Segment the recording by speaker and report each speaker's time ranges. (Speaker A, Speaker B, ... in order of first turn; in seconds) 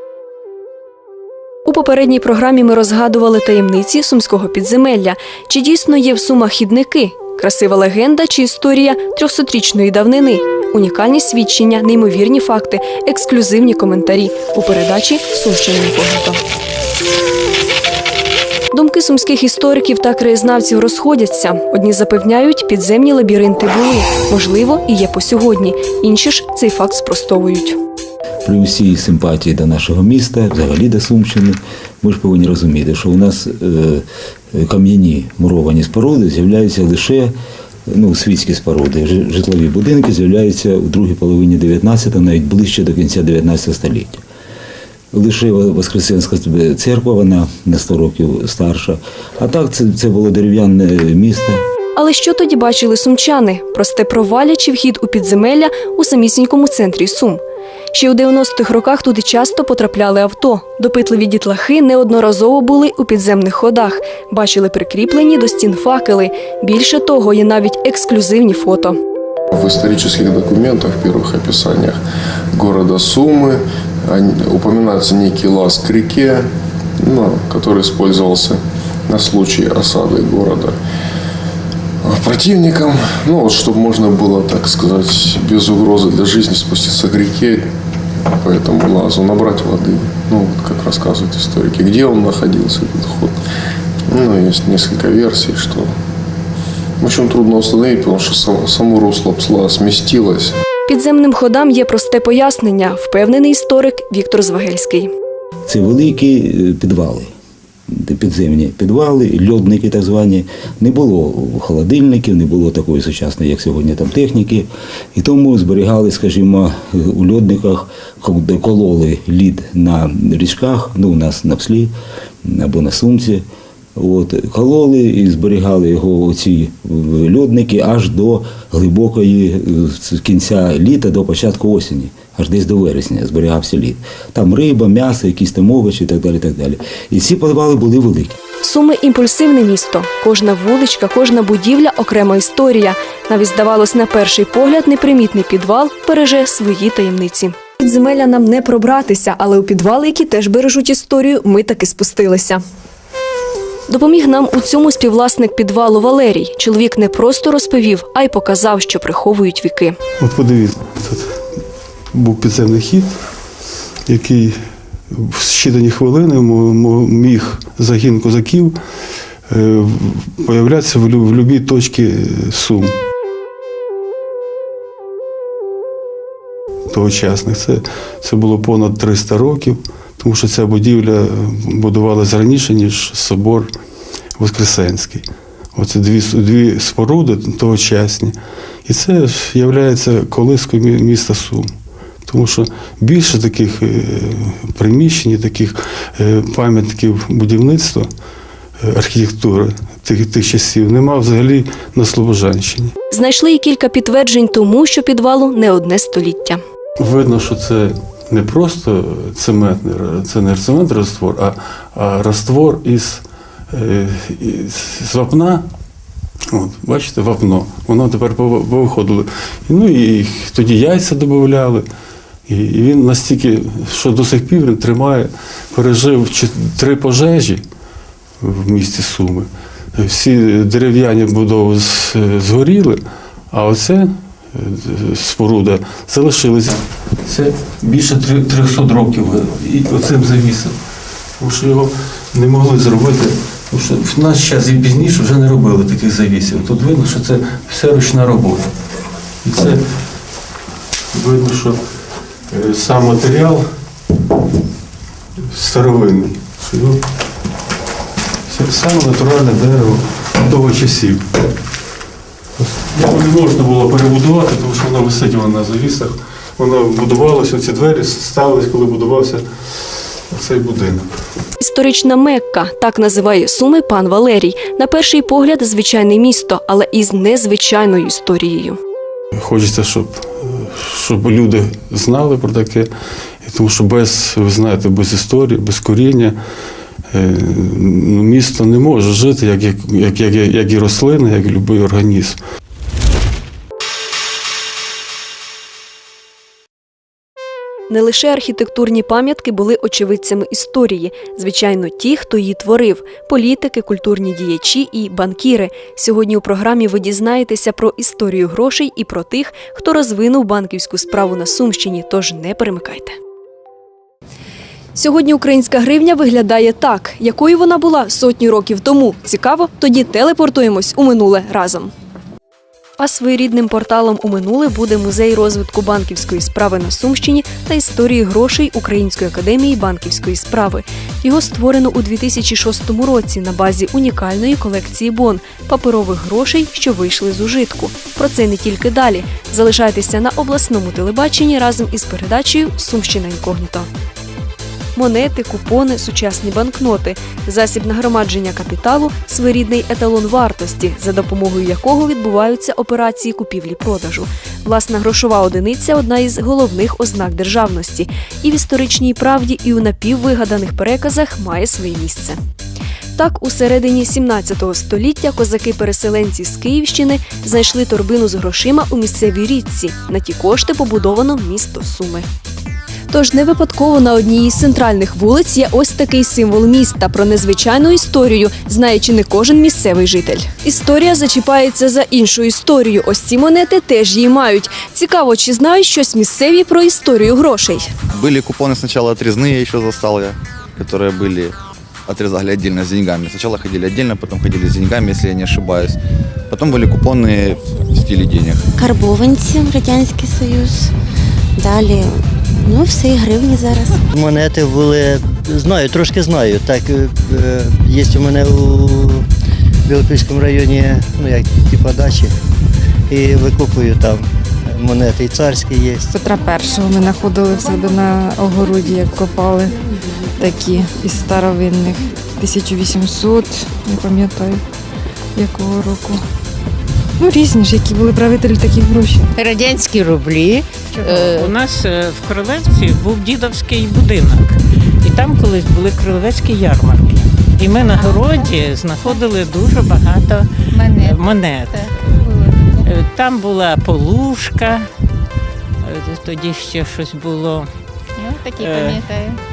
Speaker A: 1.6-16.4, 18.7-27.8, 52.0-57.4, 57.9-69.0, 100.9-105.1, 138.6-152.6, 153.9-160.0, 203.1-206.6, 271.6-278.8, 297.9-313.2, 314.9-321.9, 323.0-343.9, 344.9-362.4, 363.1-372.3, 373.1-387.9
Speaker B: 28.4-37.3, 37.9-44.2, 45.1-51.6, 105.7-107.3, 107.9-121.9, 122.4-123.4, 124.0-138.4
Speaker C: 69.5-72.0, 72.5-76.5, 77.0-80.8, 82.0-87.7, 88.2-93.3, 94.1-95.9, 97.0-100.5
Speaker D: 160.2-161.3, 162.1-163.1, 164.1-164.6, 165.1-168.8, 169.5-172.9, 176.9-183.7, 184.4-185.2, 185.7-191.7, 192.3-198.1, 198.8-202.9, 207.0-215.6, 216.5-221.8, 222.5-227.6, 228.4-233.0, 233.5-240.7, 241.4-248.7, 249.4-249.8, 251.1-251.8, 252.5-253.6, 255.5-257.0, 258.5-261.2, 262.8-271.1, 279.3-282.9, 283.4-286.4, 287.1-292.4
Speaker E: 388.1-391.5, 392.1-396.0, 396.5-398.6
Speaker F: 398.8-400.9, 401.6-404.0
Speaker G: 404.1-409.2, 409.9-412.3, 413.1-416.0
Speaker H: 416.1-419.8, 420.4-424.6, 425.4-426.2, 427.2-429.3
Speaker I: 429.3-442.2, 442.8-444.9, 445.8-447.7, 448.6-449.0
Speaker J: 431.0-431.5, 438.0-438.5, 440.7-442.9, 448.2-449.4